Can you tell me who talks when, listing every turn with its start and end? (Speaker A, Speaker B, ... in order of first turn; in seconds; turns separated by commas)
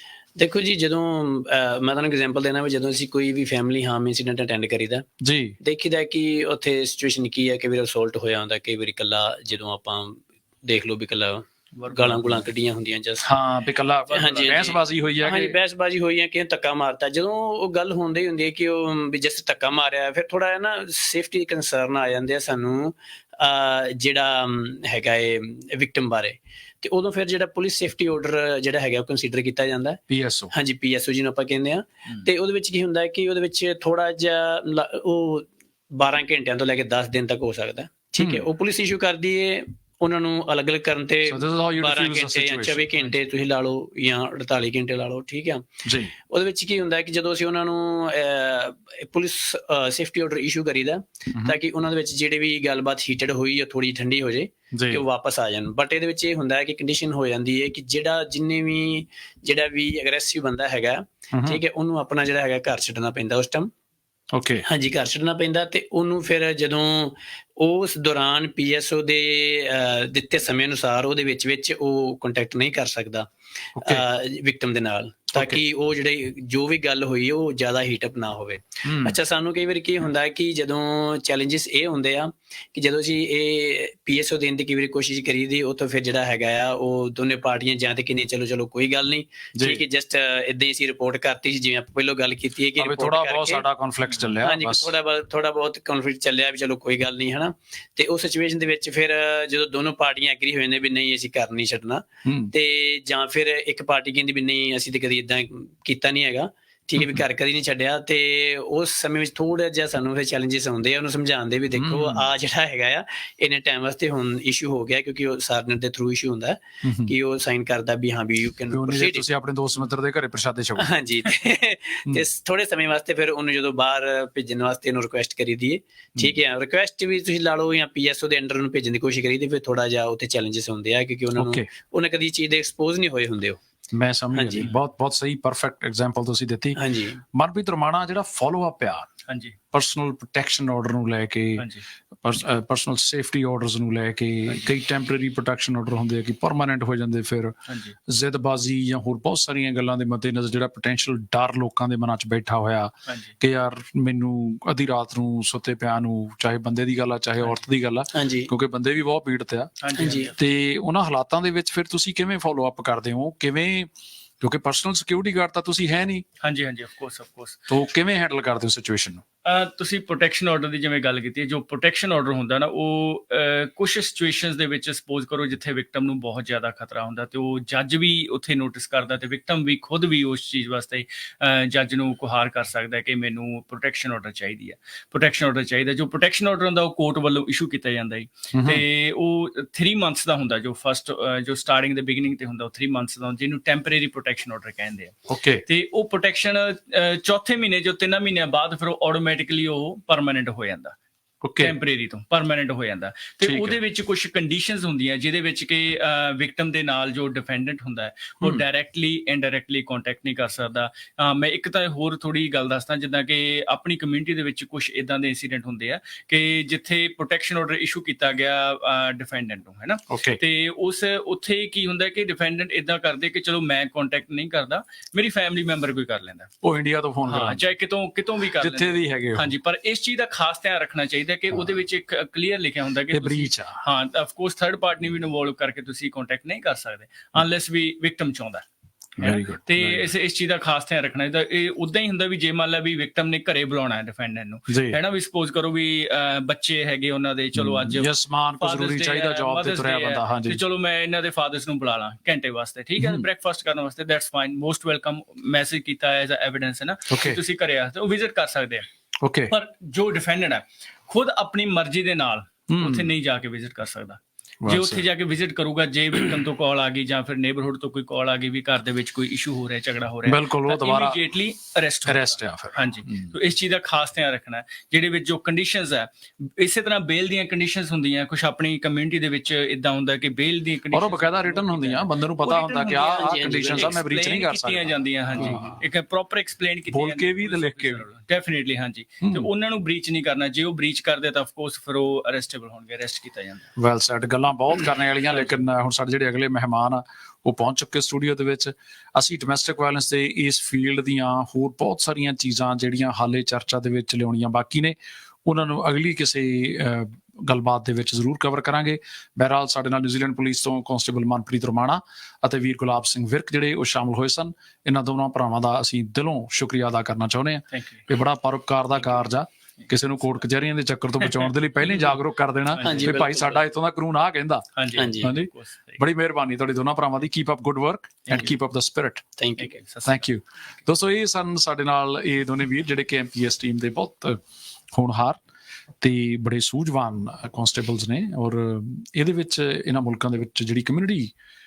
Speaker A: 0.4-5.1, Speaker B: 5.2-5.6, Speaker A: 5.6-13.3, Speaker C: 11.8-12.5, Speaker B: 13.2-15.6, Speaker A: 14.1-30.0, Speaker B: 30.1-30.5, Speaker A: 30.5-45.7, Speaker B: 38.2-38.5, Speaker B: 41.3-42.9, Speaker B: 45.9-46.1, Speaker A: 46.3-63.7, Speaker B: 51.3-51.6, Speaker B: 54.7-55.0, Speaker B: 61.3-61.6, Speaker B: 64.3-64.6, Speaker A: 64.7-73.3, Speaker B: 73.8-74.0, Speaker A: 73.8-93.6, Speaker B: 75.3-75.6, Speaker B: 78.8-79.2, Speaker B: 89.5-89.8, Speaker B: 92.8-94.9, Speaker A: 94.4-119.2, Speaker B: 102.2-102.5, Speaker B: 111.8-112.3, Speaker B: 116.8-117.1, Speaker B: 118.7-120.9, Speaker A: 120.8-133.6, Speaker B: 131.3-131.7, Speaker B: 133.9-136.8, Speaker A: 134.3-134.7, Speaker A: 136.8-137.2, Speaker B: 137.3-139.1, Speaker C: 139.3-139.6, Speaker B: 139.7-141.7, Speaker C: 141.6-141.8, Speaker B: 142.2-147.6, Speaker C: 147.7-147.9, Speaker B: 148.1-163.9, Speaker C: 153.1-153.3, Speaker A: 158.1-158.5, Speaker C: 159.8-160.3, Speaker A: 160.0-160.3, Speaker B: 164.4-166.2, Speaker C: 166.4-167.7, Speaker B: 167.7-169.2, Speaker C: 169.4-195.1, Speaker B: 188.5-188.8, Speaker B: 195.3-195.6, Speaker C: 195.7-200.9, Speaker B: 201.4-201.7, Speaker C: 201.6-226.5, Speaker B: 203.4-203.8, Speaker B: 220.1-220.4, Speaker B: 226.6-227.6, Speaker C: 227.3-238.6, Speaker B: 228.6-229.5, Speaker B: 233.1-233.8, Speaker B: 239.2-240.1, Speaker C: 239.2-258.9, Speaker B: 244.7-245.0, Speaker B: 247.6-250.6, Speaker B: 253.0-253.3, Speaker B: 257.1-257.4, Speaker B: 259.2-259.5, Speaker C: 259.5-293.7, Speaker B: 262.7-263.1, Speaker B: 264.6-265.1, Speaker B: 270.3-271.2, Speaker B: 272.1-273.3, Speaker B: 280.9-285.8, Speaker A: 283.1-284.0, Speaker B: 286.9-288.1, Speaker B: 289.2-289.5, Speaker B: 293.8-324.7, Speaker C: 317.7-318.1, Speaker C: 319.0-319.3, Speaker C: 319.8-320.4, Speaker C: 321.2-322.1, Speaker C: 322.8-323.1, Speaker A: 322.8-323.6, Speaker C: 324.8-326.0, Speaker A: 325.0-325.3, Speaker B: 325.2-329.3, Speaker C: 328.3-328.6, Speaker A: 329.4-329.7, Speaker C: 329.6-330.3, Speaker B: 330.1-334.4, Speaker B: 334.9-335.4, Speaker B: 336.0-341.3